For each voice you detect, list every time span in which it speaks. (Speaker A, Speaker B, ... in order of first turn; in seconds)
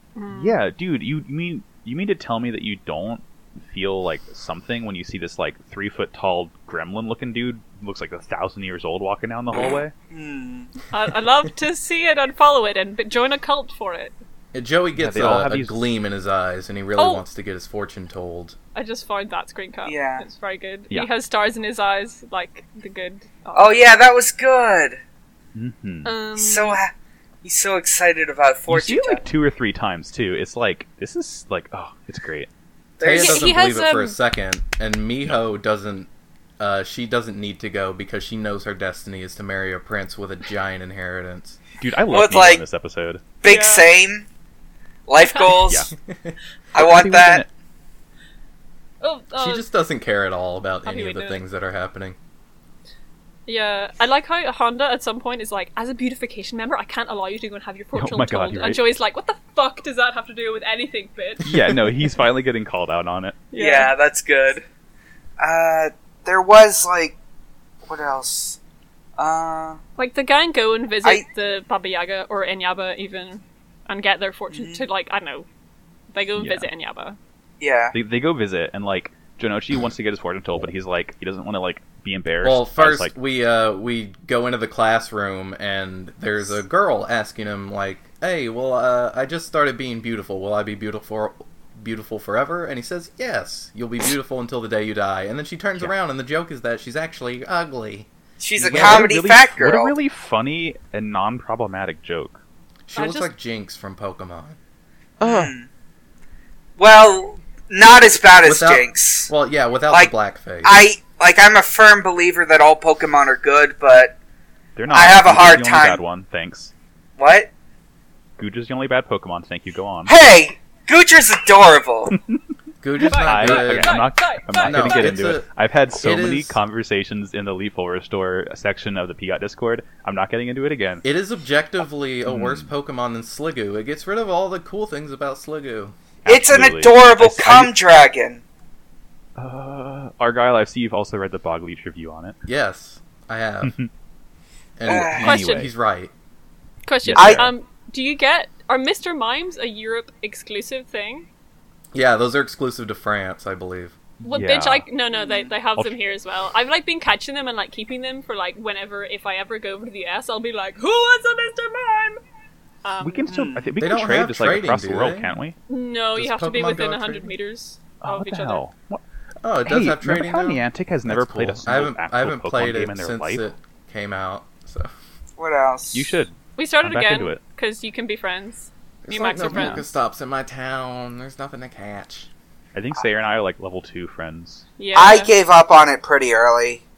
Speaker A: 0.1-0.6, 10.9-14.2, 16.9-17.2, 18.7-23.8, 26.0-26.8, 33.1-34.2, 43.4-43.9, 45.2-45.5, 49.0-49.7, 50.9-51.4, 53.5-61.5, 63.5-63.9, 70.0-75.5, 76.1-77.2, 102.9-103.3, 123.0-125.3, 145.2-145.7, 146.8-151.3, 154.2-162.2, 162.8-163.3, 165.7-168.6, 176.6-179.8, 184.8-185.3
Speaker B: 0.3-9.9, 14.9-15.8, 25.5-26.1, 28.7-32.5, 41.8-43.2, 45.5-45.9, 46.7-47.5, 57.9-58.8, 61.4-63.4, 76.4-76.7, 77.9-83.1, 98.7-102.4, 114.8-116.7, 118.4-120.1, 123.2-131.0, 132.2-132.7, 136.2-137.7, 139.3-142.4, 143.6-143.9, 145.1-145.7, 147.0-147.5, 154.2-154.8, 163.0-165.6, 168.0-169.0, 169.6-173.4, 175.9-177.4, 179.4-179.8, 182.7-184.7
Speaker C: 10.1-10.7, 19.8-20.2, 23.5-25.0, 26.4-26.9, 27.4-29.2, 33.0-33.5, 42.1-42.6, 43.4-44.3, 45.1-45.9, 46.7-47.4, 63.5-64.6, 65.4-67.2, 67.8-68.6, 69.2-69.8, 74.5-74.8, 77.6-78.0, 98.4-99.9, 105.2-105.7, 106.8-109.3, 109.9-114.2, 114.9-116.0, 117.2-117.5, 120.0-122.1, 136.3-138.4, 144.8-145.3, 147.2-147.5, 155.1-155.5, 163.3-163.6, 175.4-176.2, 184.9-186.8
Speaker D: 14.5-18.6, 33.0-36.1, 36.6-41.6, 49.3-52.2, 82.4-99.2, 102.9-104.6, 105.2-105.5, 108.4-110.8, 122.8-124.1, 124.6-126.6, 131.0-135.9, 142.4-143.7, 144.8-146.1, 151.9-154.0, 163.8-165.3, 166.1-167.3, 169.4-174.9, 179.0-182.3